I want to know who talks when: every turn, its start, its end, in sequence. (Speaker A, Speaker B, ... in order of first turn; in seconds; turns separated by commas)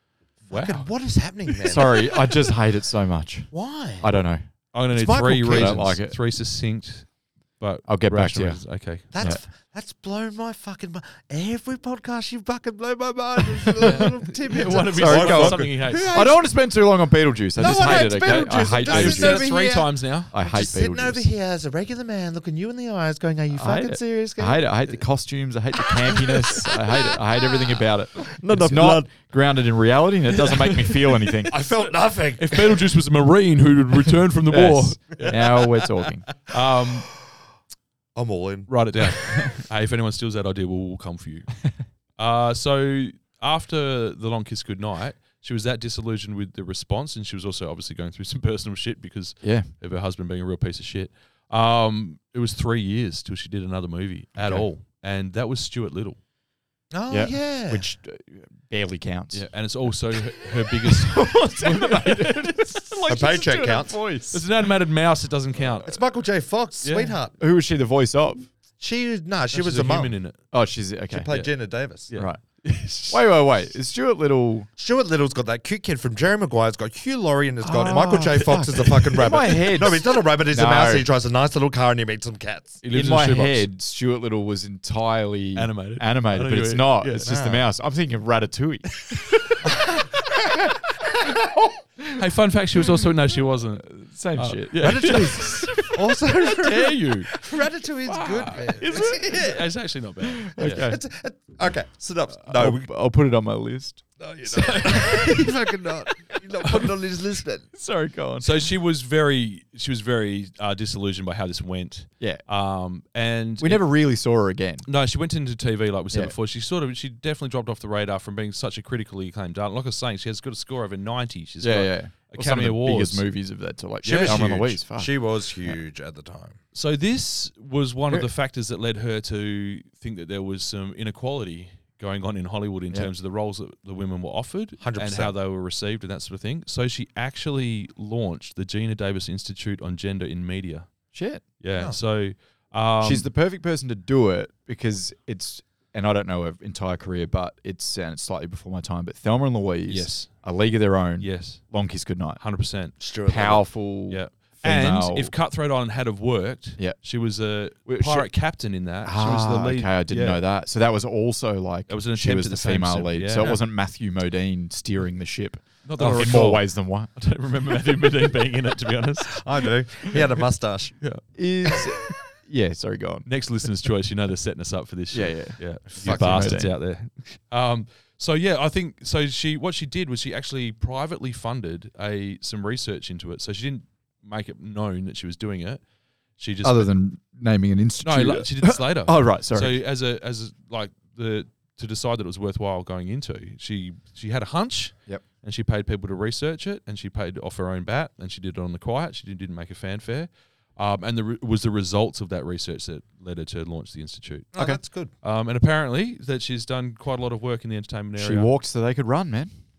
Speaker A: 0.5-2.2, Speaker B: 0.5-0.9, Speaker C: 1.6-6.2, Speaker A: 3.5-4.1, Speaker B: 4.7-9.3, Speaker A: 4.9-6.0, Speaker C: 7.8-9.4, Speaker A: 9.1-16.6, Speaker B: 13.8-16.2, Speaker C: 14.7-19.8, Speaker A: 17.6-24.8, Speaker B: 17.6-20.3, Speaker C: 20.3-21.3, Speaker C: 23.5-31.6, Speaker A: 26.2-27.1, Speaker A: 28.2-29.1, Speaker B: 30.4-35.4, Speaker A: 31.5-32.8, Speaker C: 34.5-36.3, Speaker A: 35.2-35.7, Speaker B: 36.5-37.1, Speaker A: 38.1-39.5, Speaker B: 38.7-41.6, Speaker B: 42.1-56.2, Speaker C: 49.4-49.7, Speaker C: 54.4-54.7, Speaker A: 56.9-57.9, Speaker C: 57.1-64.4, Speaker B: 59.3-63.6, Speaker A: 63.1-64.0, Speaker B: 64.3-66.0, Speaker A: 65.8-67.3, Speaker B: 66.8-67.1, Speaker C: 67.4-68.5, Speaker A: 68.8-70.2, Speaker B: 69.5-70.4, Speaker C: 70.5-71.3, Speaker A: 71.1-72.1, Speaker B: 71.3-73.3, Speaker C: 72.1-74.7, Speaker A: 74.8-82.8, Speaker C: 77.6-81.1, Speaker B: 82.8-83.7, Speaker C: 82.9-89.4, Speaker B: 85.5-87.3, Speaker A: 87.2-87.7, Speaker B: 92.2-97.4, Speaker C: 93.8-95.9, Speaker A: 94.8-99.6, Speaker B: 98.0-100.9, Speaker C: 100.4-101.0, Speaker A: 100.6-102.9, Speaker C: 102.5-104.0, Speaker A: 104.2-107.7, Speaker B: 104.5-105.2, Speaker C: 104.8-105.4, Speaker C: 107.7-108.6, Speaker B: 108.4-113.9, Speaker C: 113.6-114.9, Speaker B: 114.8-123.3, Speaker C: 116.1-116.3, Speaker C: 121.6-125.8, Speaker A: 124.0-126.6, Speaker B: 124.0-124.7, Speaker B: 126.7-143.3, Speaker A: 134.8-135.3, Speaker C: 141.1-141.4, Speaker A: 141.7-142.0, Speaker C: 143.0-152.4, Speaker B: 149.9-150.3, Speaker B: 151.2-151.7, Speaker B: 152.4-153.0, Speaker A: 153.0-153.7, Speaker C: 153.2-155.3, Speaker B: 154.1-160.4, Speaker C: 157.8-158.3, Speaker C: 159.0-167.1, Speaker B: 161.9-163.6, Speaker B: 165.8-169.4, Speaker A: 169.3-171.0, Speaker B: 171.0-171.2, Speaker C: 171.3-173.3, Speaker B: 173.2-185.8, Speaker C: 175.1-176.8, Speaker A: 175.9-176.5, Speaker B: 186.4-186.9, Speaker C: 186.6-189.8, Speaker B: 188.0-204.5, Speaker A: 204.5-205.1, Speaker C: 204.5-204.8, Speaker B: 205.2-208.5, Speaker C: 208.2-209.5